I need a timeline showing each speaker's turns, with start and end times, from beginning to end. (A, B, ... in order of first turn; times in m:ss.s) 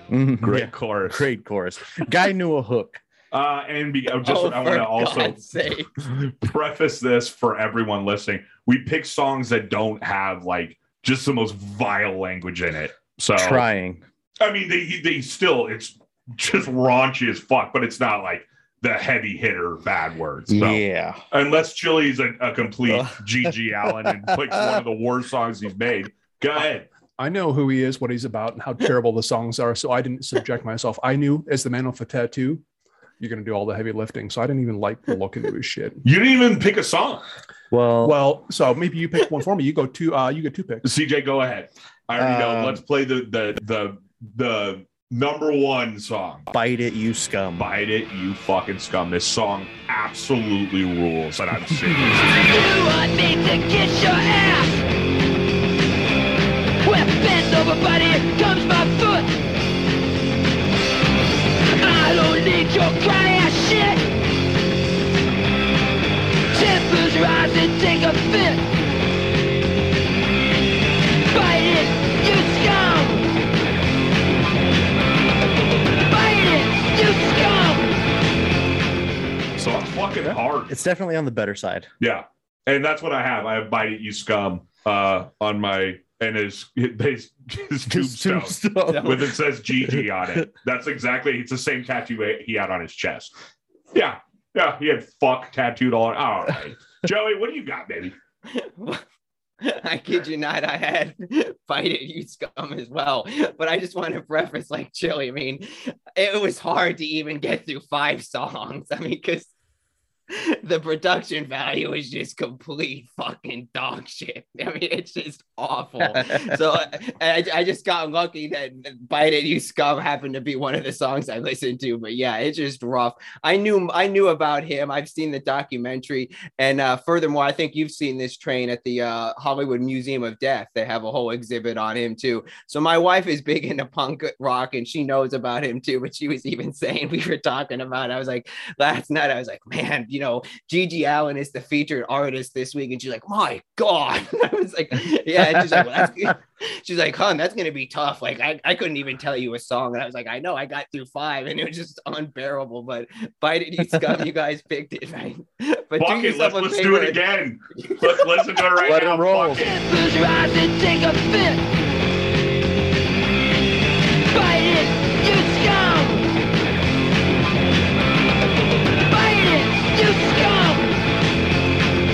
0:00.1-0:03.0 A
0:00.4-0:01.3 B
0:03.3-0:05.4 B
0:04.2-0:05.9 C
0:06.0-0:13.6 B
0:13.3-0:14.0 A
0:14.4-0:26.9 B
0:20.5-0:21.2 A
0:22.9-0:23.2 A
0:24.3-0:24.8 A
0:27.2-0:32.6 D
0:33.2-0:36.0 D
0:36.0-0:37.2 B
0:37.7-0:38.2 A
0:38.0-0:40.8 D
0:40.8-0:46.5 B
0:42.2-0:42.8 A
0:46.5-0:47.7 A
0:47.6-0:52.4 B
0:52.2-0:54.8 E
0:56.8-0:59.4 E
1:01.7-1:04.0 E
1:06.5-1:08.6 E
1:11.3-1:13.3 E
1:16.1-1:18.0 E
1:19.6-1:20.7 B
1:20.3-1:21.9 A
1:22.0-1:33.3 B
1:27.9-1:30.4 A
1:28.9-1:29.2 C
1:33.9-1:38.1 B
1:38.5-1:39.0 C
1:39.6-1:49.5 C
1:50.3-2:37.2 C
2:36.0-2:39.7 B
2:38.8-2:39.7 A
2:39.5-2:41.6 E
2:44.3-2:46.3 E
2:49.1-2:50.9 E